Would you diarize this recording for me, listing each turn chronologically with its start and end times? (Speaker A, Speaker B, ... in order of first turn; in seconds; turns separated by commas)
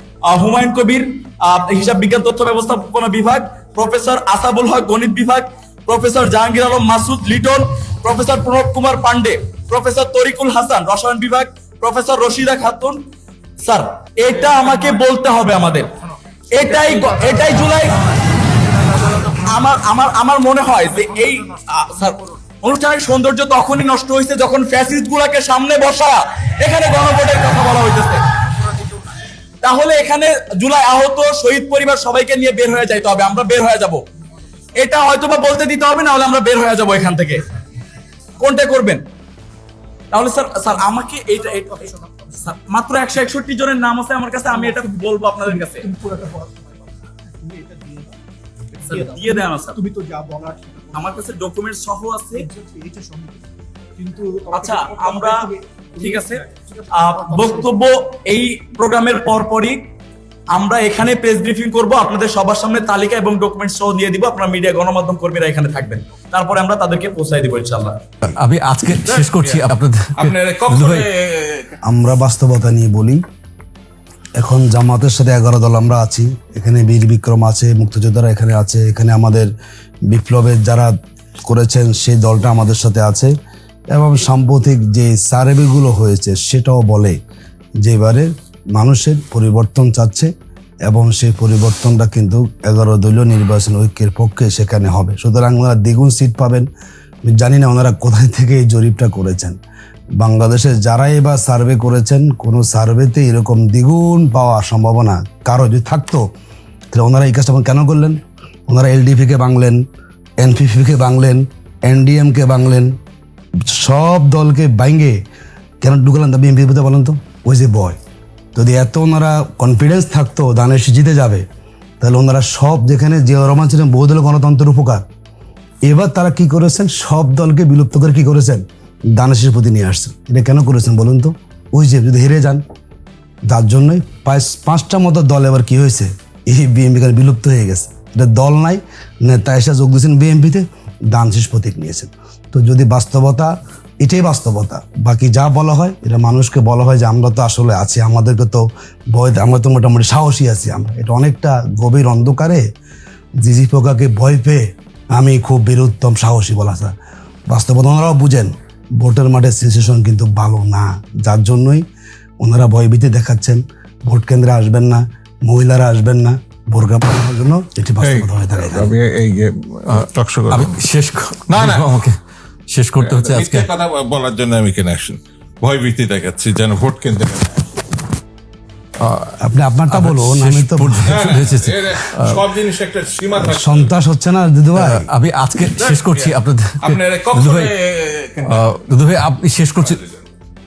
Speaker A: 0.3-13.0, Speaker A: 13.6-15.9, Speaker A: 16.5-18.0, Speaker A: 19.4-28.2, Speaker A: 29.6-34.0, Speaker A: 34.8-37.4, Speaker A: 38.4-39.0, Speaker A: 40.1-45.9, Speaker B: 45.9-46.6, Speaker B: 47.4-48.1, Speaker A: 48.9-49.8, Speaker B: 49.0-50.9, Speaker A: 50.9-52.5, Speaker B: 52.5-53.4, Speaker B: 54.0-55.3, Speaker A: 54.5-55.4, Speaker A: 56.0-56.5, Speaker B: 56.0-57.6, Speaker A: 57.0-59.8, Speaker A: 60.5-67.9, Speaker C: 68.2-71.1, Speaker D: 69.3-69.6, Speaker D: 70.2-71.7, Speaker E: 71.9-73.2, Speaker E: 74.4-79.5, Speaker E: 80.1-80.9, Speaker E: 81.5-83.3, Speaker E: 83.9-87.2, Speaker E: 87.8-90.3, Speaker E: 90.9-96.7, Speaker E: 97.2-99.6, Speaker E: 100.2-106.2, Speaker E: 106.9-109.8, Speaker E: 110.4-112.9, Speaker E: 113.7-115.2, Speaker E: 115.8-118.0, Speaker E: 118.5-121.4, Speaker E: 122.0-125.0, Speaker E: 125.9-128.6, Speaker E: 129.2-132.6, Speaker E: 133.5-152.6, Speaker E: 153.4-154.6, Speaker E: 155.2-156.9, Speaker E: 157.5-161.8, Speaker E: 162.4-169.0, Speaker D: 168.0-170.8, Speaker C: 170.0-172.2, Speaker D: 171.5-171.9, Speaker C: 172.7-173.7, Speaker D: 173.0-177.5, Speaker C: 179.0-179.3, Speaker E: 179.4-181.1, Speaker C: 179.9-182.5, Speaker D: 181.1-183.9, Speaker E: 183.4-185.0, Speaker C: 184.7-187.8, Speaker D: 185.8-188.6, Speaker C: 188.4-190.0, Speaker D: 189.8-190.2